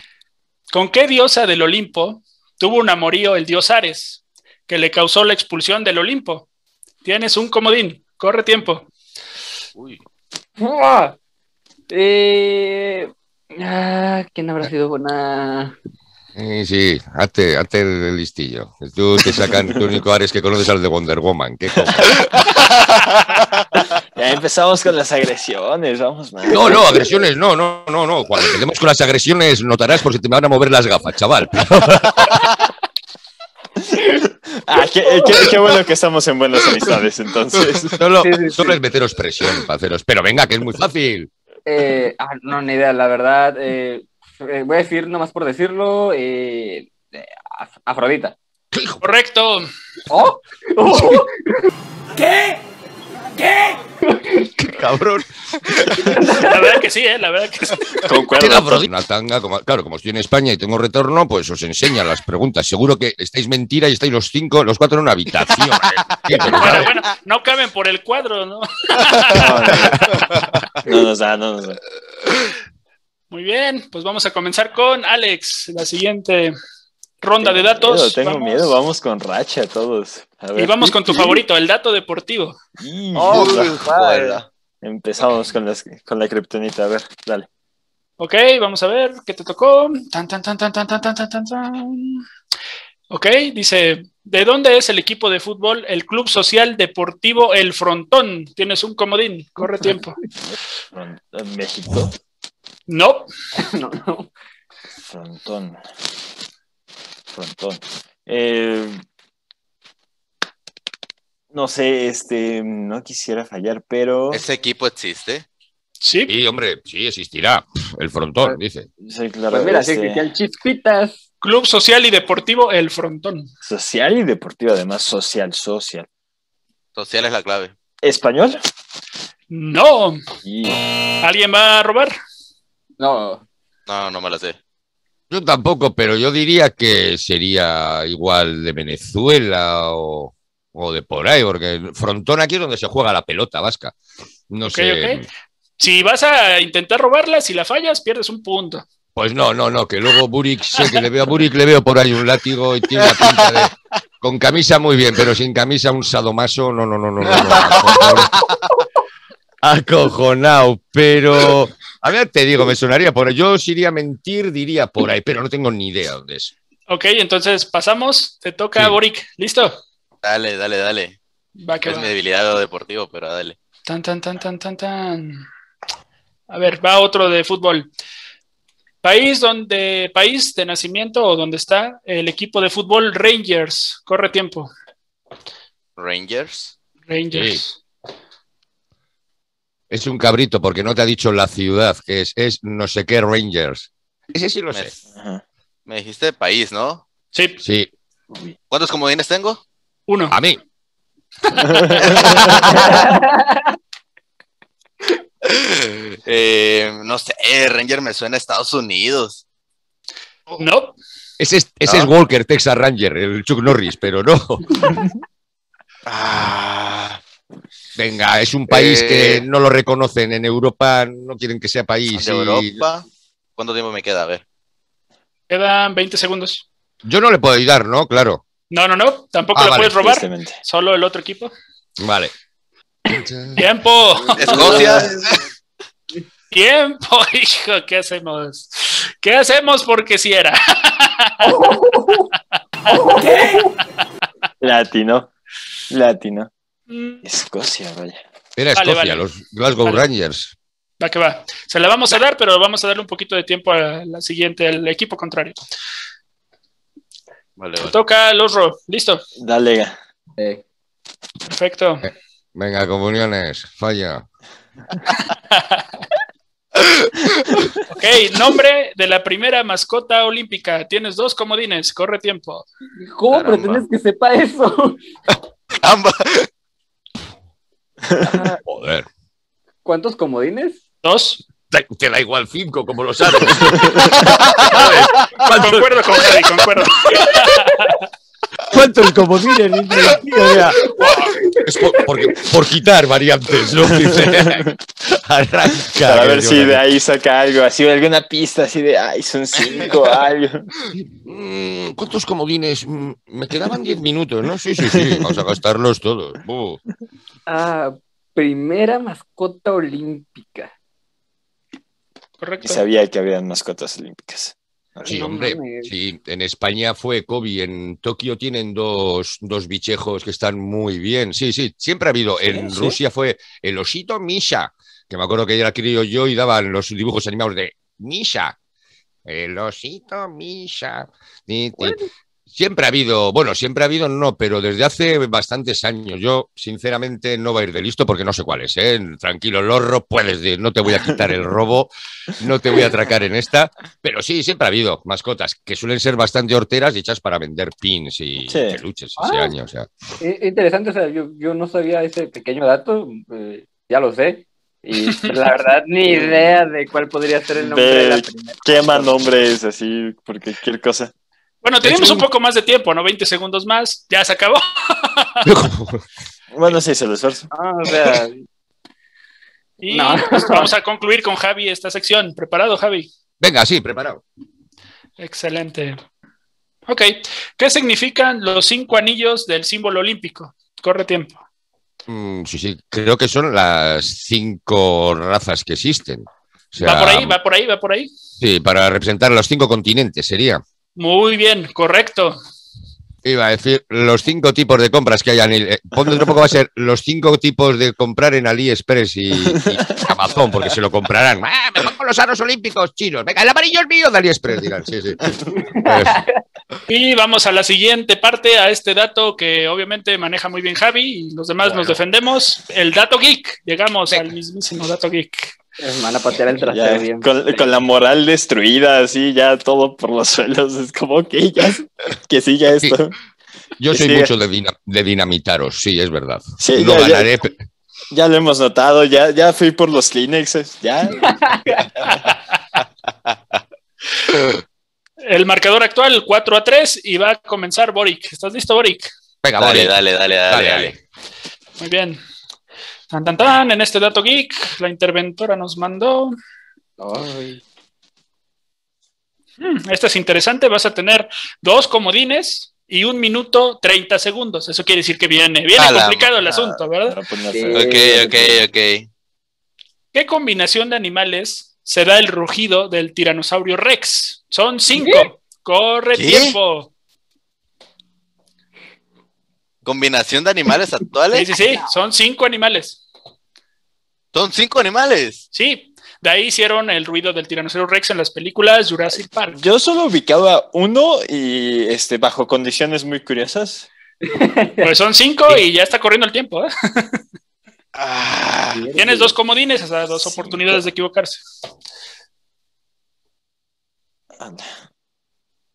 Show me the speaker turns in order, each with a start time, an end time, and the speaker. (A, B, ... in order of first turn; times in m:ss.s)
0:00.7-0:06.5 A
0:07.0-0:08.9 A
0:10.6-0:11.2 B
0:11.9-0:15.8 B
0:16.4-0:22.3 C
0:19.4-0:19.8 D
0:22.7-0:23.2 E
0:23.8-0:27.0 D
0:26.5-0:32.4 C
0:33.8-0:38.0 D
0:35.0-0:35.5 B
0:38.0-0:41.3 C
0:38.2-0:38.8 B
0:41.7-0:48.4 B
0:48.7-0:49.0 C
0:49.0-0:49.7 A
0:50.1-0:51.7 B
0:50.9-0:51.2 C
0:53.4-0:54.5 B
0:54.6-0:55.3 C
0:56.0-0:56.7 B
0:56.3-0:57.9 A
0:58.0-0:58.9 D
0:58.4-1:06.9 C
1:05.8-1:06.7 E
1:06.5-1:09.9 A
1:09.3-1:10.0 D
1:10.3-1:10.6 E
1:10.8-1:11.8 D
1:13.3-1:16.6 A
1:17.2-1:18.8 A
1:17.4-1:21.4 D
1:20.6-1:22.6 A
1:22.8-1:27.5 D
1:23.2-1:24.5 E
1:28.2-1:32.2 A
1:33.1-1:40.2 A
1:40.9-1:42.1 D
1:42.9-1:43.3 A
1:43.6-1:44.3 B
1:45.0-1:45.8 D
1:47.3-1:49.0 D
1:51.5-1:54.4 D
1:54.3-1:55.5 E
1:56.0-1:56.3 A
1:56.3-1:58.9 C
1:59.0-2:00.2 D
1:59.5-2:01.2 B
2:01.4-2:03.5 A
2:03.6-2:06.1 D
2:07.0-2:07.7 E
2:08.0-2:08.6 D
2:09.5-2:10.2 A
2:10.4-2:10.8 D
2:11.2-2:12.1 A
2:13.0-2:13.4 B
2:13.9-2:14.6 E
2:15.3-2:24.0 C
2:24.5-2:25.3 C
2:24.7-2:25.2 A
2:25.8-2:28.8 A
2:29.2-2:38.4 C
2:33.0-2:33.7 E
2:37.3-2:38.8 E
2:39.6-2:46.5 C
2:46.9-2:49.8 A
2:50.2-2:51.2 E
2:51.6-2:52.1 A
2:51.8-2:53.6 E
2:53.9-2:55.4 A
2:56.5-2:57.9 A
2:59.0-3:04.7 A
3:06.0-3:06.7 E
3:07.1-3:07.8 A
3:07.3-3:07.6 C
3:09.9-3:14.9 C
3:15.1-3:15.4 D
3:15.9-3:17.0 E
3:17.3-3:17.6 A
3:17.6-3:17.9 C
3:18.7-3:19.6 E
3:20.1-3:20.4 A
3:20.3-3:20.6 C
3:21.5-3:22.4 A
3:21.6-3:22.8 D
3:22.0-3:22.9 E
3:22.8-3:23.7 B
3:25.4-3:29.4 E
3:30.6-3:31.0 A
3:31.4-3:34.8 C
3:31.8-3:32.1 E
3:34.9-3:35.2 D
3:36.1-3:37.2 E
3:38.0-3:42.8 C
3:38.7-3:39.4 E
3:42.1-3:43.0 E
3:43.6-3:44.4 E
3:45.5-3:46.6 A
3:47.0-3:48.4 C
3:48.7-3:51.5 A
3:49.6-3:49.9 C
3:50.0-3:50.6 D
3:52.0-3:52.3 C
3:53.1-3:53.6 C
3:53.6-3:54.8 A
3:54.4-3:55.4 E
3:54.5-3:55.3 B
3:56.5-4:01.7 A
4:01.5-4:02.3 B
4:02.9-4:03.7 B
4:03.2-4:03.6 D
4:04.6-4:05.3 D
4:05.9-4:06.5 D
4:06.9-4:07.3 A
4:07.2-4:08.2 D
4:08.6-4:10.6 C
4:08.8-4:09.3 A
4:11.0-4:15.6 A
4:17.6-4:18.0 E
4:17.8-4:19.2 A
4:19.4-4:20.0 D
4:21.5-4:22.1 A
4:22.0-4:24.3 C
4:25.2-4:25.8 A
4:26.8-4:27.5 E
4:27.9-4:32.7 A
4:33.0-4:35.0 B
4:33.3-4:33.8 C
4:35.8-4:36.5 E
4:38.1-4:38.4 D
4:38.2-4:38.6 B
4:38.7-4:39.1 C
4:39.8-4:40.8 B
4:41.0-4:41.4 A
4:41.7-4:46.3 C
4:44.2-4:44.8 E
4:45.4-4:48.0 A
4:48.7-4:56.8 C
4:51.1-4:52.3 B
4:54.1-4:54.7 D
4:56.0-5:00.7 D
4:59.6-4:59.9 E
5:00.9-5:06.8 C
5:04.9-5:05.4 D
5:07.5-5:10.7 B
5:12.4-5:12.9 A
5:12.6-5:15.0 D
5:15.0-5:15.9 B
5:15.0-5:28.6 C
5:22.5-5:23.0 D
5:29.3-5:32.0 C
5:32.5-5:49.9 C
5:48.5-5:48.8 D
5:49.2-5:49.5 B
5:50.2-5:59.2 B
5:56.1-5:56.6 D
5:57.6-6:01.1 D
6:01.6-6:05.5 A
6:01.8-6:02.3 C
6:05.4-6:06.0 C
6:06.5-6:07.5 D
6:07.5-6:08.5 B
6:09.8-6:13.1 A
6:09.9-6:10.7 B
6:13.4-6:14.2 C
6:15.2-6:16.0 A
6:16.9-6:21.3 A
6:22.1-6:27.4 C
6:26.8-6:28.1 A
6:28.4-6:30.6 C
6:31.0-6:32.4 A
6:33.2-6:45.2 C
6:39.5-6:40.0 D
6:45.6-6:46.3 B
6:45.8-6:46.2 C
6:46.9-6:55.6 A
6:55.8-6:57.7 B
6:56.6-7:03.2 D
7:03.8-7:07.6 C
7:03.9-7:04.3 D
7:06.6-7:07.3 D
7:08.1-7:11.3 D
7:11.2-7:11.9 B
7:12.0-7:12.3 D
7:12.0-7:12.4 A
7:13.3-7:13.6 E
7:15.2-7:19.1 A
7:19.4-7:20.0 C
7:19.6-7:20.9 E
7:20.5-7:21.0 C
7:21.8-7:22.2 A
7:23.1-7:26.4 A
7:27.0-7:27.6 B
7:29.6-7:37.2 A
7:35.8-7:36.3 E
7:36.4-7:38.0 D
7:37.5-7:38.6 B
7:37.7-7:39.1 E
7:40.1-7:46.9 A
7:46.1-7:46.6 E
7:49.8-7:51.5 E
7:51.3-7:53.0 A
7:54.3-7:55.4 E
7:55.5-7:59.6 A
7:59.5-8:03.9 D
8:04.2-8:04.9 B
8:04.8-8:07.2 A
8:08.0-8:08.8 E
8:08.7-8:09.3 B
8:09.0-8:11.4 A
8:14.4-8:14.7 D